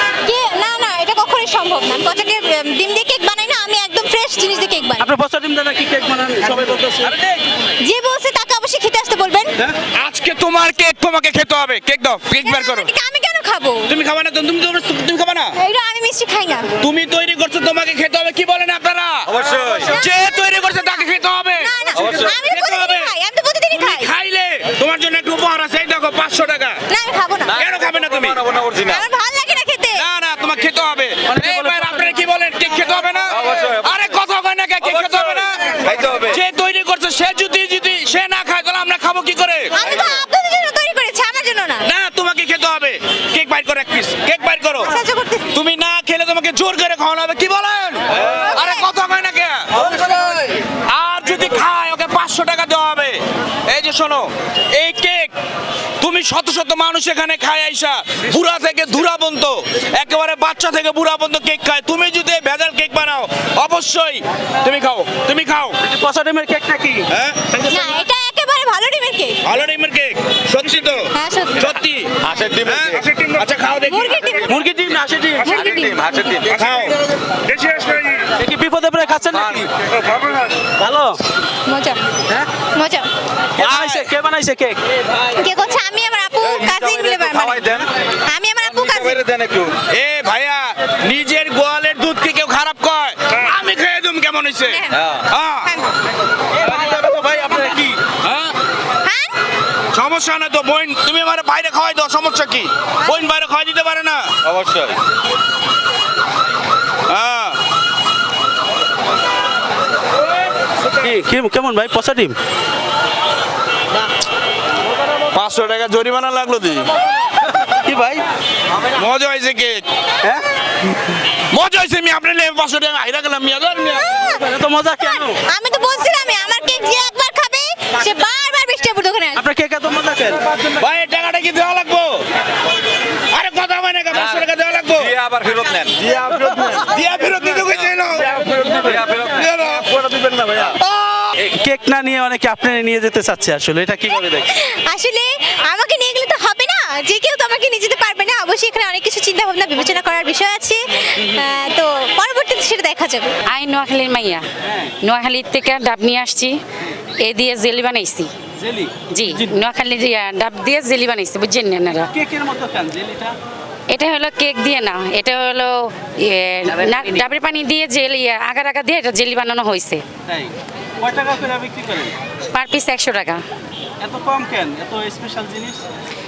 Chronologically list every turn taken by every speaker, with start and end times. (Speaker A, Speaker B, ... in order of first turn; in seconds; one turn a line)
Speaker A: 0.2-5.1
Speaker B: 5.0-7.2
Speaker A: 7.8-9.5
Speaker C: 9.9-12.9
Speaker A: 12.4-13.9
Speaker C: 13.9-15.6
Speaker A: 15.6-16.7
Speaker C: 16.8-23.1
Speaker D: 19.4-19.8
Speaker A: 19.7-24.1
Speaker C: 23.7-26.8
Speaker A: 26.9-27.6
Speaker C: 27.6-28.6
Speaker D: 28.5-28.9
Speaker A: 28.8-30.1
Speaker C: 29.9-40.2
Speaker B: 31.3-32.1
Speaker D: 33.4-33.9
Speaker D: 36.0-36.4
Speaker A: 39.8-41.9
Speaker C: 41.9-44.9
Speaker A: 44.8-45.5
Speaker C: 45.5-55.3
Speaker A: 48.3-48.9
Speaker C: 56.0-65.8
Speaker B: 65.8-67.1
Speaker C: 67.1-67.4
Speaker A: 67.7-69.4
Speaker C: 69.4-74.5
Speaker A: 71.1-71.7
Speaker D: 72.3-73.0
Speaker A: 73.9-74.6
Speaker B: 74.5-75.6
Speaker A: 75.5-76.3
Speaker D: 75.7-76.6
Speaker C: 76.5-78.3
Speaker B: 78.4-79.7
Speaker C: 80.1-80.5
Speaker B: 80.8-81.2
Speaker A: 81.7-82.0
Speaker A: 82.8-83.1
Speaker B: 83.6-84.8
Speaker C: 83.6-84.0
Speaker A: 85.3-87.8
Speaker D: 86.6-87.6
Speaker A: 88.3-89.2
Speaker D: 89.2-89.8
Speaker C: 89.8-95.7
Speaker A: 94.7-95.9
Speaker C: 96.9-98.5
Speaker A: 99.0-99.3
Speaker C: 99.9-104.9
Speaker C: 107.1-107.6
Speaker B: 111.0-112.4
Speaker C: 115.3-116.9
Speaker B: 117.7-118.2
Speaker C: 118.9-119.8
Speaker C: 121.5-124.0
Speaker A: 124.0-129.4
Speaker B: 124.4-125.4
Speaker B: 129.4-130.4
Speaker C: 130.7-132.2
Speaker C: 133.3-135.2
Speaker D: 135.1-136.0
Speaker C: 136.8-139.9
Speaker D: 138.9-139.3
Speaker B: 141.4-144.5
Speaker A: 144.5-153.3
Speaker B: 151.2-151.6
Speaker E: 153.5-154.4
Speaker B: 154.6-154.9
Speaker E: 155.0-156.6
Speaker E: 157.2-158.3
Speaker B: 158.6-159.6
Speaker E: 159.1-162.1
Speaker B: 162.1-163.3
Speaker E: 163.9-170.0
Speaker B: 170.3-172.1
Speaker E: 172.5-173.4
Speaker B: 174.0-175.8